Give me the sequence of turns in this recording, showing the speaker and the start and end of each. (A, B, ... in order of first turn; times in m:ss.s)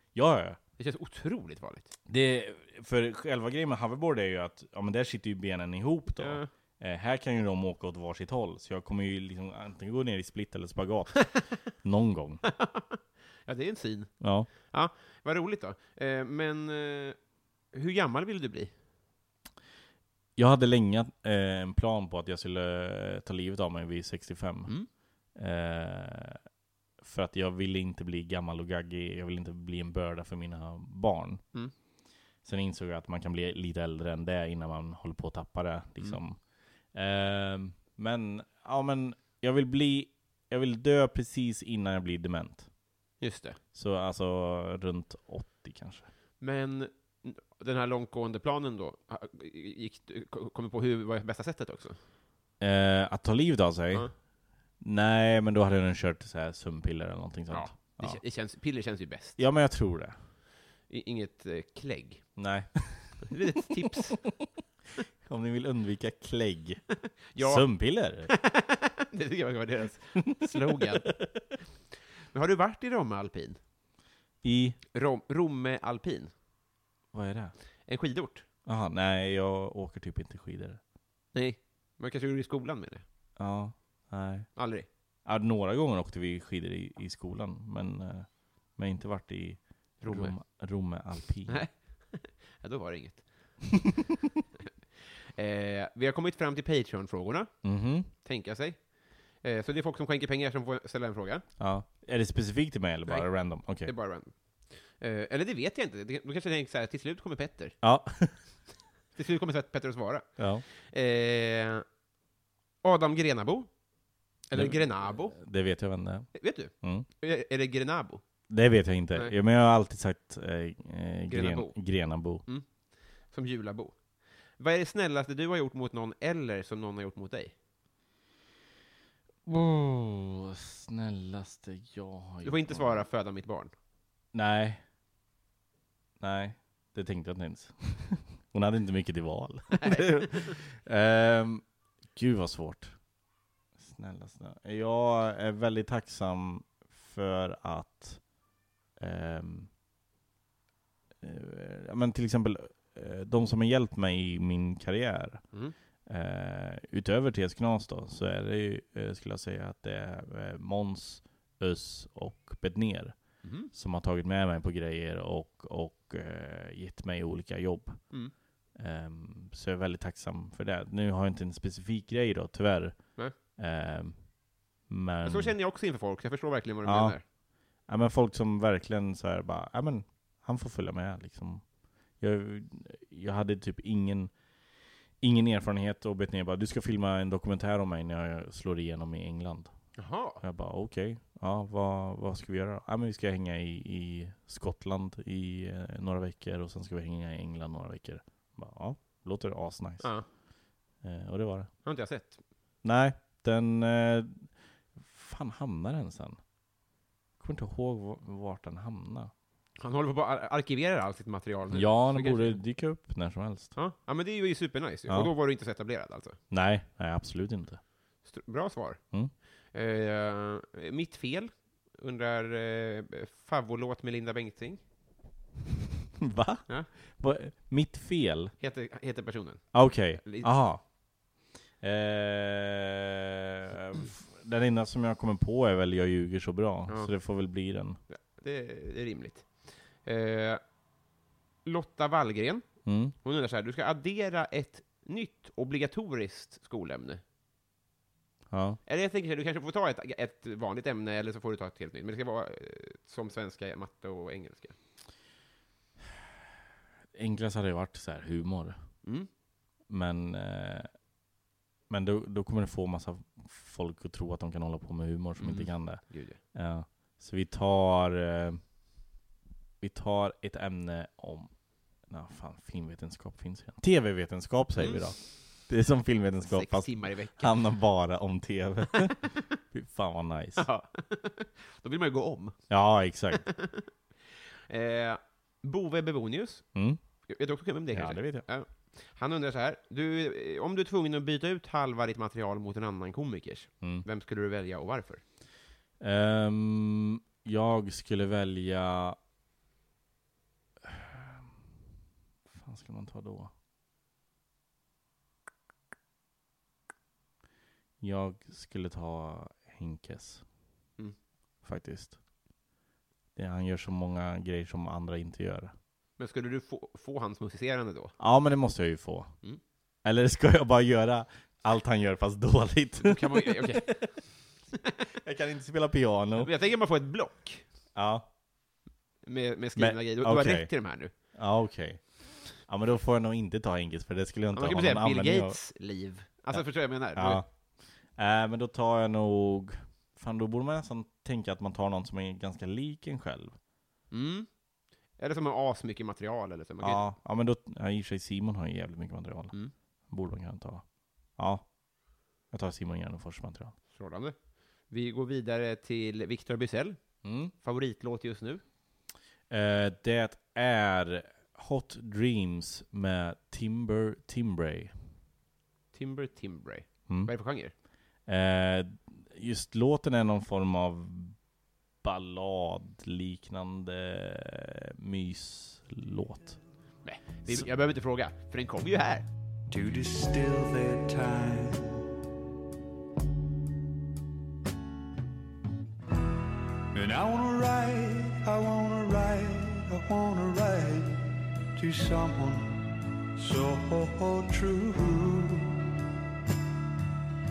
0:00.2-0:00.6 A
0:00.8-0:01.9 B
0:02.1-0:12.4 A
0:06.2-0:06.5 B
0:12.4-0:18.8 B
0:14.2-0:14.5 A
0:20.4-0:26.4 A
0:27.0-0:31.5 A
0:32.4-0:42.7 A
0:43.2-0:43.6 B
0:43.7-0:46.1 A
0:46.4-0:52.0 B
0:52.6-0:54.3 A
0:54.8-0:58.2 A
0:57.5-0:59.4 B
0:59.4-1:00.2 A
1:00.9-1:02.4 B
1:02.4-1:03.4 A
1:03.2-1:04.3 B
1:05.2-1:08.3 A
1:07.3-1:11.7 B
1:10.3-1:11.5 A
1:12.3-1:13.6 B
1:14.4-1:14.8 A
1:14.9-1:16.3 B
1:17.1-1:17.5 A
1:17.9-1:18.5 B
1:18.6-1:20.8 A
1:21.3-1:23.0 B
1:23.4-1:31.7 A
1:24.6-1:24.9 B
1:30.0-1:33.9 B
1:35.4-1:41.5 B
1:37.6-1:38.1 A
1:41.6-1:44.0 A
1:43.1-1:47.8 B
1:47.8-1:48.6 A
1:49.1-1:51.8 B
1:50.4-1:50.6 A
1:52.8-1:53.8 B
1:54.4-1:55.4 B
1:54.5-1:57.1 A
1:56.4-1:58.2 B
1:58.5-2:02.4 A
2:01.3-2:07.6 B
2:09.5-2:13.1 A
2:12.4-2:13.7 B
2:14.3-2:14.8 A
2:16.2-2:23.0 A
2:19.8-2:20.6 B
2:23.8-2:28.3 A
2:29.0-2:29.7 A
2:31.2-2:35.5 A
2:36.1-2:54.4 A
2:43.4-2:43.7 B
2:54.9-2:55.6 A
2:55.2-2:57.2 B
2:56.8-2:57.2 A
2:57.8-3:04.4 A
3:05.2-3:20.4 A
3:10.0-3:10.4 B
3:20.0-3:20.3 B
3:21.0-3:21.8 A
3:21.8-3:22.4 B
3:22.8-3:26.5 A
3:27.4-3:29.3 A
3:29.8-3:32.6 B
3:31.7-3:33.8 A
3:33.8-3:36.4 B
3:36.5-3:37.8 A
3:38.2-3:44.9 B
3:46.2-3:48.6 A
3:48.6-3:50.6 B
3:49.7-3:58.0 A
3:56.9-3:57.1 B
3:58.1-4:00.7 B
4:01.6-4:07.2 B
4:02.8-4:03.1 A
4:08.5-4:08.8 A
4:08.9-4:14.8 B
4:17.1-4:19.0 A
4:19.0-4:19.3 B
4:19.9-4:21.0 A
4:21.9-4:28.6 A
4:25.4-4:26.4 B
4:29.8-4:40.7 A
4:34.8-4:35.5 B
4:36.4-4:37.8 B
4:40.6-4:42.7 B
4:42.7-4:43.5 A
4:43.3-4:43.9 B
4:44.7-4:55.2 B
4:46.7-4:47.0 A
4:47.9-4:48.5 A
4:56.0-4:59.2 A
5:00.8-5:01.5 A
5:02.5-5:03.5 A
5:08.0-5:10.4 A
5:11.6-5:12.2 A
5:13.4-5:15.7 A
5:16.2-5:18.2 B
5:18.2-5:19.4 A
5:20.0-5:24.1 A
5:23.0-5:24.6 B
5:25.2-5:26.5 A
5:26.4-5:27.7 B
5:27.9-5:28.3 A
5:29.2-5:31.1 B
5:29.8-5:35.6 A
5:34.6-5:37.4 B
5:36.5-5:43.6 A
5:44.1-5:44.6 B
5:45.2-5:47.1 B
5:46.8-5:51.8 A
5:52.4-5:53.8 A
5:53.9-5:58.6 B
5:57.2-5:57.5 A
5:59.5-6:05.1 A
6:05.9-6:07.7 B
6:07.1-6:11.4 A
6:12.0-6:16.7 A
6:17.0-6:19.3 B
6:19.7-6:22.1 C
6:26.9-6:31.2 C
6:31.8-6:35.8 C